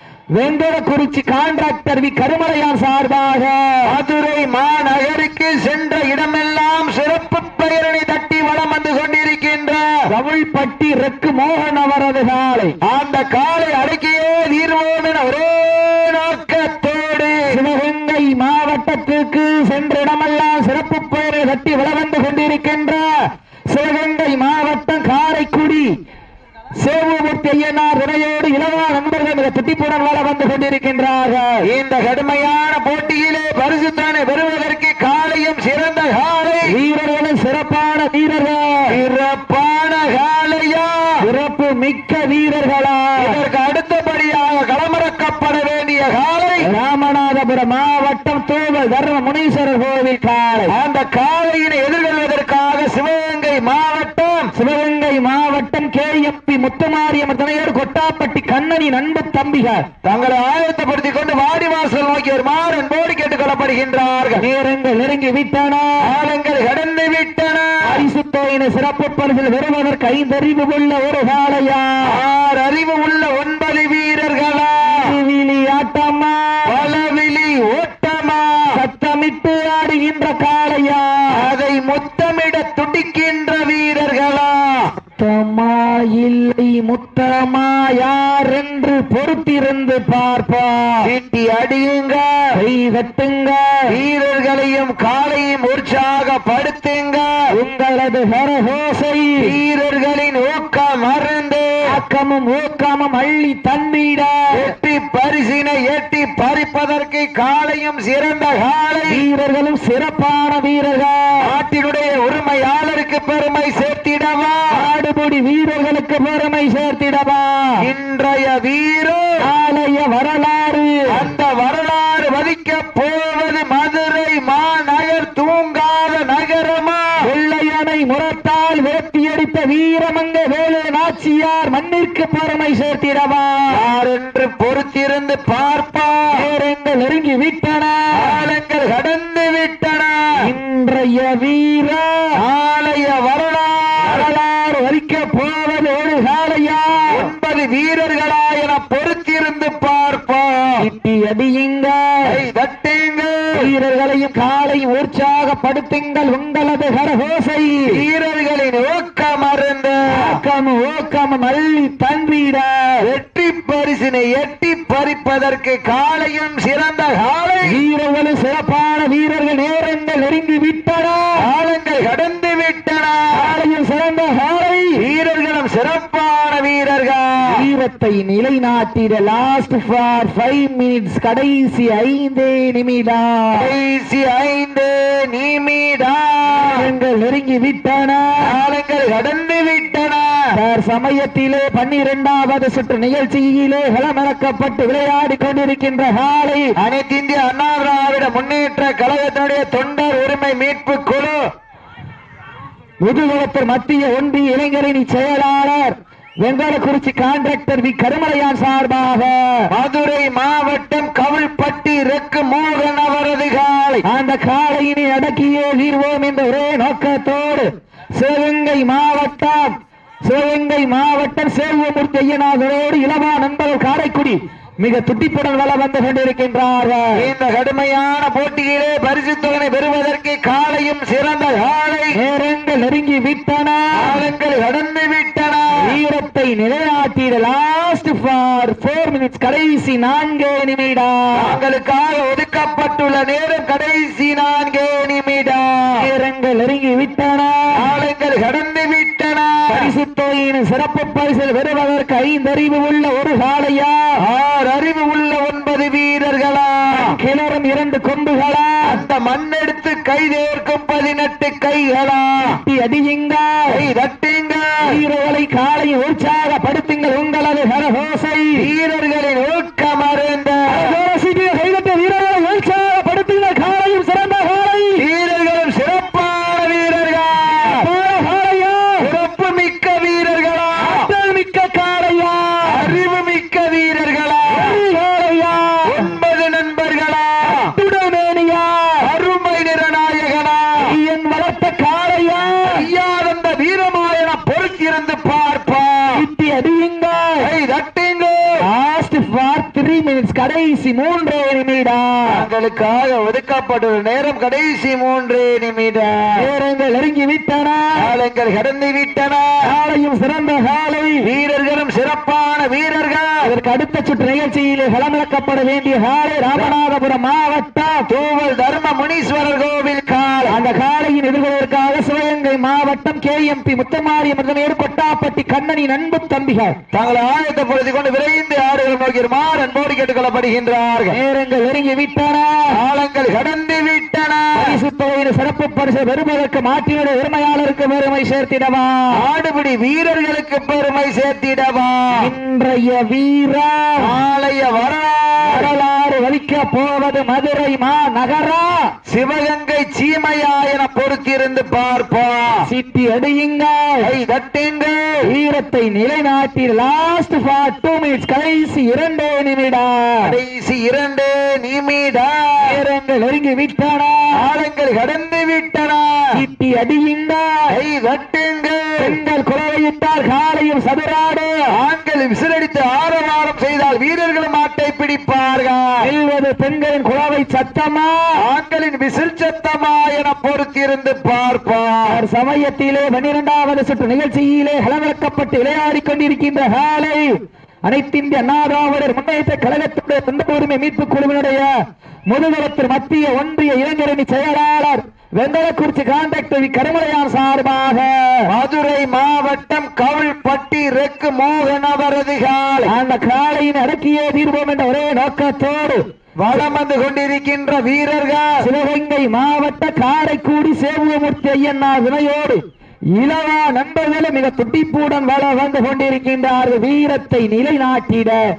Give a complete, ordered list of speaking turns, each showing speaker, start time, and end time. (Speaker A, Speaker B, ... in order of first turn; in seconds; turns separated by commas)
Speaker A: 0.4-3.9, Speaker B: 3.9-10.1, Speaker A: 10.1-12.8, Speaker B: 12.8-17.6, Speaker A: 17.5-23.2, Speaker A: 23.7-25.9, Speaker A: 26.8-31.6, Speaker B: 31.6-36.7, Speaker A: 36.7-38.9, Speaker B: 38.9-41.1, Speaker A: 41.2-43.4, Speaker B: 43.2-46.7, Speaker A: 46.6-50.8, Speaker B: 50.7-54.5, Speaker A: 54.5-59.9, Speaker B: 60.0-64.5, Speaker A: 64.4-66.0, Speaker B: 66.0-67.8, Speaker A: 67.9-72.1, Speaker B: 72.1-75.2, Speaker A: 74.9-76.8, Speaker B: 76.7-78.7, Speaker A: 78.7-81.5, Speaker B: 81.3-84.9, Speaker A: 85.2-91.1, Speaker B: 91.0-92.5, Speaker A: 92.5-93.9, Speaker B: 93.9-97.3, Speaker A: 97.5-99.5, Speaker B: 99.4-101.8, Speaker A: 101.9-104.6, Speaker B: 104.5-109.2, Speaker A: 109.1-111.5, Speaker B: 111.4-114.8, Speaker A: 114.7-117.8, Speaker B: 117.8-119.4, Speaker A: 119.4-121.1, Speaker B: 121.1-127.1, Speaker A: 127.2-133.8, Speaker B: 133.7-136.4, Speaker A: 136.3-138.4, Speaker B: 138.2-140.3, Speaker A: 140.4-142.4, Speaker B: 142.4-144.3, Speaker A: 144.0-147.3, Speaker B: 147.1-150.8, Speaker A: 150.8-152.3, Speaker B: 152.3-153.7, Speaker A: 153.6-158.0, Speaker B: 157.9-160.4, Speaker A: 160.1-163.1, Speaker B: 163.0-167.7, Speaker A: 167.7-171.4, Speaker B: 171.4-173.5, Speaker A: 173.3-175.0, Speaker B: 175.0-177.5, Speaker A: 177.5-183.7, Speaker B: 183.6-186.9, Speaker A: 186.6-188.5, Speaker B: 188.4-190.4, Speaker A: 190.6-196.7, Speaker B: 196.8-201.4, Speaker A: 203.0-209.7, Speaker B: 209.7-214.0, Speaker A: 214.1-219.7, Speaker A: 220.3-227.2, Speaker B: 227.2-232.2, Speaker A: 232.1-234.1, Speaker B: 234.0-236.0, Speaker A: 235.8-241.6, Speaker B: 241.4-246.1, Speaker A: 245.9-247.8, Speaker B: 247.8-249.9, Speaker A: 249.7-254.1, Speaker B: 254.2-257.2, Speaker A: 256.9-259.0, Speaker B: 258.9-262.6, Speaker A: 262.4-263.8, Speaker B: 263.7-264.8, Speaker A: 264.9-268.7, Speaker B: 268.6-271.0, Speaker A: 270.7-275.1, Speaker B: 275.0-277.9, Speaker A: 277.6-279.1, Speaker B: 279.0-281.1, Speaker A: 280.8-282.9, Speaker B: 282.7-284.8, Speaker A: 284.5-286.1, Speaker B: 285.9-287.7, Speaker A: 287.4-289.1, Speaker B: 289.0-290.9, Speaker A: 290.8-292.9, Speaker B: 292.7-296.2, Speaker A: 296.1-297.5, Speaker B: 297.4-298.6, Speaker A: 298.6-302.4, Speaker B: 302.3-306.5, Speaker A: 306.4-308.1, Speaker B: 308.0-309.6, Speaker A: 309.6-311.3, Speaker B: 311.2-313.4, Speaker A: 313.4-318.1, Speaker B: 318.1-320.6, Speaker A: 320.5-326.8, Speaker B: 326.9-331.2, Speaker A: 331.1-332.7, Speaker B: 332.7-334.8, Speaker A: 334.6-339.2, Speaker B: 339.1-342.3, Speaker A: 342.1-344.1, Speaker B: 344.0-345.7, Speaker A: 345.4-348.9, Speaker B: 349.1-352.6, Speaker A: 352.6-354.1, Speaker B: 354.0-355.2, Speaker A: 355.3-360.4, Speaker B: 360.2-362.8, Speaker A: 362.6-364.4, Speaker B: 364.3-366.2, Speaker A: 366.3-367.7, Speaker B: 367.7-369.2, Speaker A: 369.0-371.7, Speaker B: 371.7-376.1, Speaker A: 376.0-378.4, Speaker B: 378.4-382.2, Speaker A: 382.1-391.7, Speaker A: 392.3-398.5, Speaker B: 398.5-402.9, Speaker A: 402.9-406.0, Speaker B: 406.4-408.6, Speaker A: 408.6-412.6, Speaker A: 413.2-418.4